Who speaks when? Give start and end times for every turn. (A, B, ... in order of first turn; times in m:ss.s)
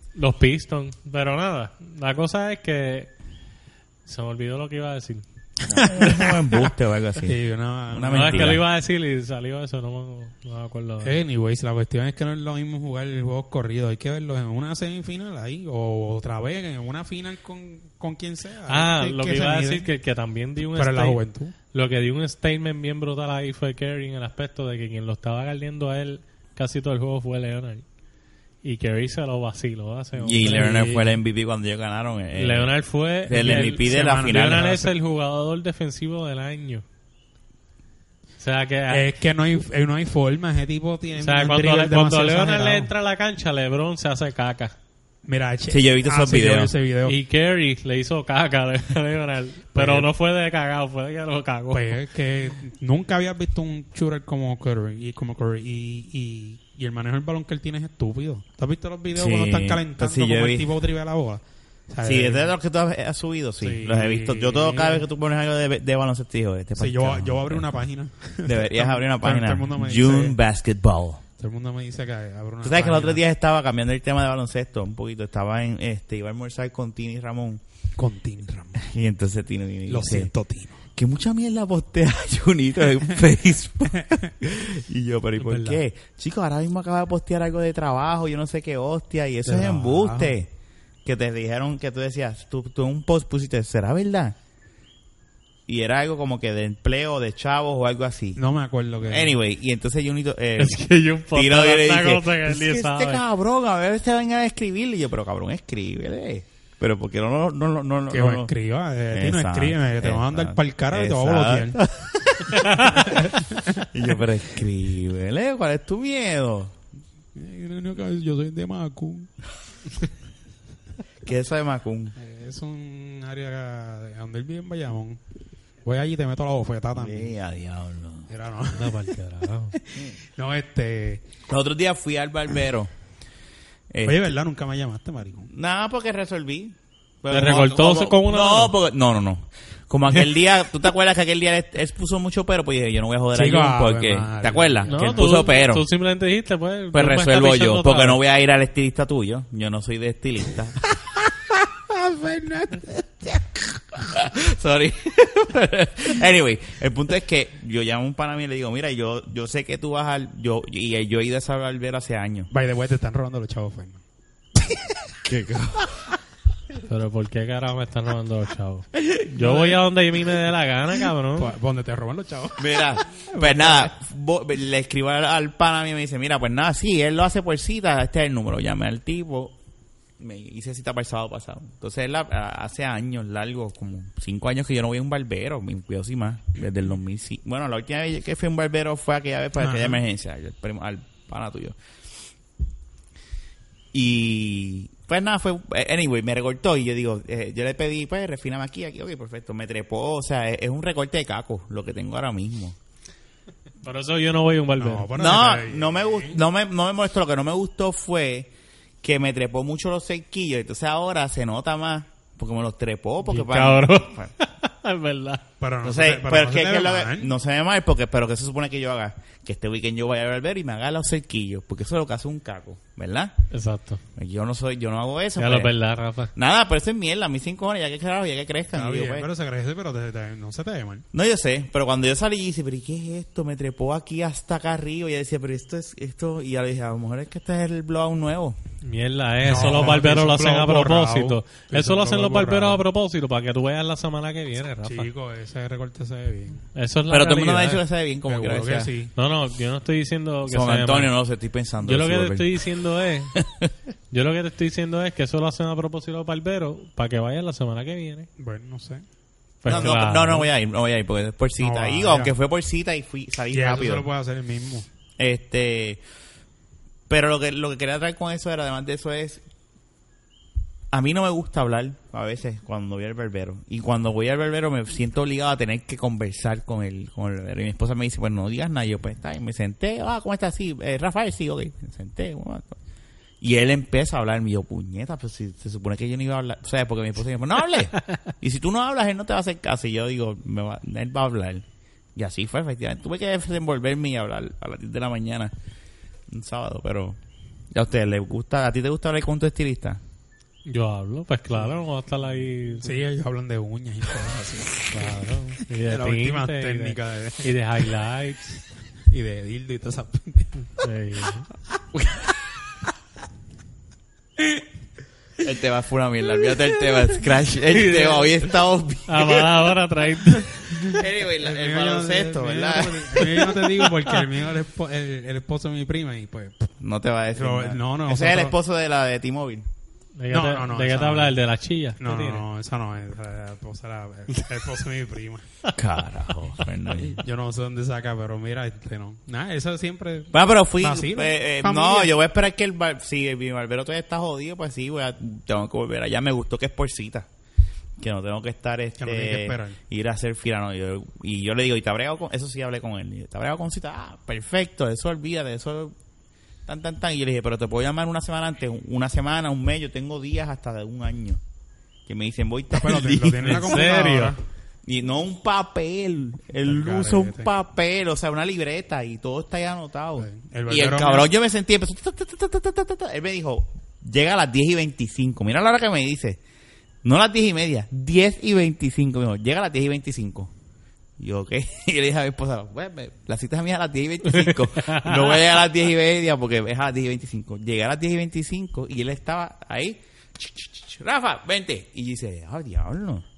0:00.1-0:03.1 A
0:04.0-0:05.2 A
0:05.7-0:07.4 B
0:05.8-0:06.4 C
0:07.2-0:08.6 C
0:07.9-0:08.6 B
0:08.1-0:11.1 A
0:11.0-0:19.9 C
0:18.7-0:21.2 A
0:20.7-0:21.5 C
0:21.7-0:27.8 A
0:28.6-0:31.0 A
0:30.2-0:32.7 B
0:30.4-0:31.0 C
0:32.3-0:36.8 A
0:33.3-0:34.7 B
0:33.4-0:34.9 C
0:38.4-0:39.1 A
0:38.9-0:42.9 C
0:41.2-0:44.7 A
0:45.2-0:47.2 C
0:45.7-0:46.7 B
0:47.0-0:52.0 A
0:49.7-0:50.1 C
0:51.7-1:02.5 C
0:59.1-1:00.7 B
1:02.0-1:07.6 B
1:03.6-1:05.0 C
1:06.8-1:10.4 C
1:08.4-1:11.2 B
1:11.4-1:13.2 C
1:12.6-1:17.6 B
1:18.0-1:18.8 C
1:18.8-1:20.3 B
1:19.9-1:20.8 C
1:21.0-1:30.5 B
1:25.4-1:25.8 C
1:29.4-1:30.3 C
1:31.0-1:34.4 B
1:35.7-1:38.4 B
1:38.4-1:39.4 C
1:39.0-1:48.5 B
1:40.6-1:43.2 A
1:48.1-1:51.9 C
1:49.1-1:56.7 B
1:52.4-1:53.9 C
1:57.3-1:59.3 C
2:01.2-2:02.1 B
2:02.2-2:05.2 C
2:05.8-2:07.3 C
2:06.9-2:08.3 B
2:08.3-2:09.0 C
2:08.7-2:09.8 A
2:09.9-2:11.2 C
2:11.5-2:12.9 B
2:13.9-2:14.3 B
2:14.0-2:15.5 C
2:15.5-2:25.8 B
2:17.3-2:18.7 A
2:23.3-2:25.4 C
2:24.9-2:28.2 A
2:26.9-2:30.8 B
2:31.9-2:33.0 C
2:33.2-2:42.5 B
2:42.5-2:44.0 C
2:44.6-2:44.9 C
2:45.2-2:46.0 B
2:46.8-2:51.5 A
2:49.3-2:49.8 C
2:51.4-2:53.9 C
2:52.6-2:59.6 B
3:00.2-3:11.8 B
3:09.6-3:10.0 C
3:13.9-3:22.8 B
3:23.8-3:25.1 A
3:24.8-3:26.4 C
3:25.1-3:28.5 B
3:29.0-3:34.3 B
3:33.2-3:35.4 A
3:35.6-3:37.3 C
3:35.8-3:43.3 B
3:43.5-3:44.0 A
3:44.1-3:45.7 B
3:45.4-3:46.3 A
3:46.3-3:49.3 B
3:48.7-3:51.0 C
3:51.1-3:58.6 B
3:58.8-4:05.1 A
3:59.4-4:02.8 C
4:04.8-4:06.6 C
4:06.7-4:07.8 A
4:07.1-4:08.9 B
4:08.3-4:09.1 C
4:09.1-4:11.1 A
4:10.5-4:12.5 B
4:11.8-4:13.4 A
4:13.4-4:13.7 B
4:14.1-4:18.3 A
4:18.4-4:19.0 C
4:19.6-4:20.5 A
4:19.6-4:24.1 B
4:21.6-4:22.4 C
4:23.5-4:24.9 C
4:25.2-4:26.0 B
4:27.1-4:29.4 B
4:30.9-4:42.8 B
4:43.4-4:51.6 B
4:52.2-4:55.5 B
4:56.3-4:57.2 B
4:57.7-5:00.0 B
5:00.6-5:03.0 A
5:02.8-5:07.9 C
5:04.9-5:08.4 A
5:09.1-5:10.7 C
5:10.8-5:11.5 A
5:11.9-5:12.3 B
5:15.4-5:19.5 B
5:17.7-5:18.3 A
5:19.1-5:20.9 A
5:20.8-5:26.7 C
5:20.8-5:23.6 B
5:26.8-5:29.7 B
5:27.4-5:28.5 C
5:30.2-5:32.4 A
5:30.3-5:31.4 C
5:32.0-5:35.4 C
5:35.8-5:37.2 B
5:37.2-5:42.1 C
5:40.3-5:47.3 B
5:48.0-5:55.9 B
5:49.0-5:49.8 C
5:56.6-6:01.4 B
6:02.0-6:03.8 B
6:02.7-6:04.4 C
6:03.5-6:04.3 A
6:04.8-6:16.4 B
6:06.6-6:07.5 C
6:10.2-6:11.3 C
6:17.0-6:20.5 B
6:21.2-6:33.2 B
6:24.2-6:25.4 A